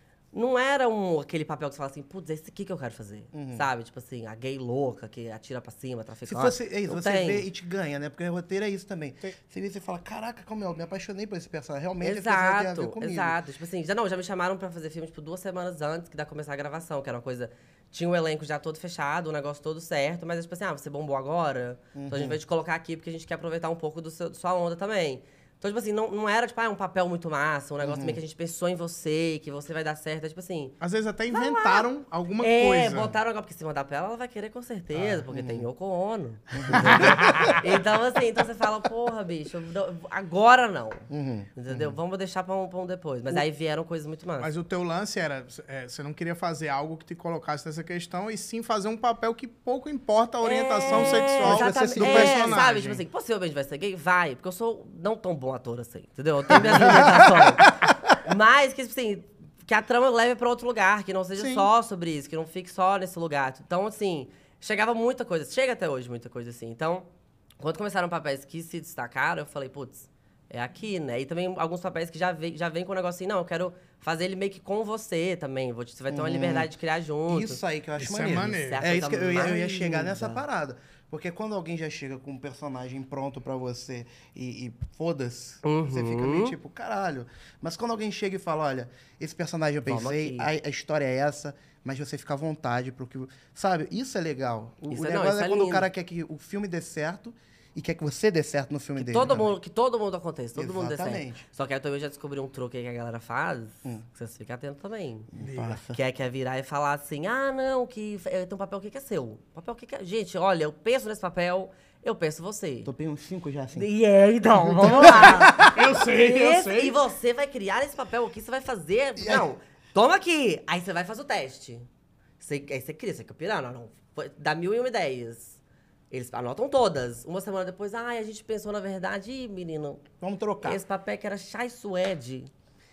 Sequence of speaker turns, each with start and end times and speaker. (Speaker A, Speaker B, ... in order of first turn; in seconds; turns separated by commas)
Speaker A: 0.3-7.5, Speaker B: 3.3-3.7, Speaker B: 6.3-13.4, Speaker A: 12.0-30.8, Speaker B: 21.9-22.4, Speaker B: 27.8-28.2, Speaker C: 30.8-33.1, Speaker A: 31.3-31.9, Speaker A: 32.4-44.5, Speaker B: 35.3-35.7, Speaker B: 36.5-37.6, Speaker C: 37.0-37.6, Speaker B: 41.1-42.0, Speaker C: 44.4-53.0, Speaker A: 50.4-67.1, Speaker B: 50.9-52.6, Speaker B: 56.5-57.7, Speaker B: 61.4-61.7, Speaker A: 67.6-77.6, Speaker B: 76.1-76.7, Speaker B: 77.3-99.5, Speaker C: 78.0-78.8, Speaker A: 78.5-80.4, Speaker A: 85.6-86.6, Speaker A: 89.9-90.5, Speaker A: 94.9-95.9, Speaker A: 99.0-105.3, Speaker B: 100.6-101.4, Speaker B: 105.3-106.0, Speaker C: 105.4-105.8, Speaker A: 105.9-112.9, Speaker B: 112.8-113.9, Speaker A: 113.8-121.9, Speaker B: 114.5-115.7, Speaker C: 114.9-117.0, Speaker B: 119.2-119.5, Speaker A: 122.4-125.6, Speaker A: 126.1-130.0, Speaker B: 130.2-130.8, Speaker A: 130.6-132.5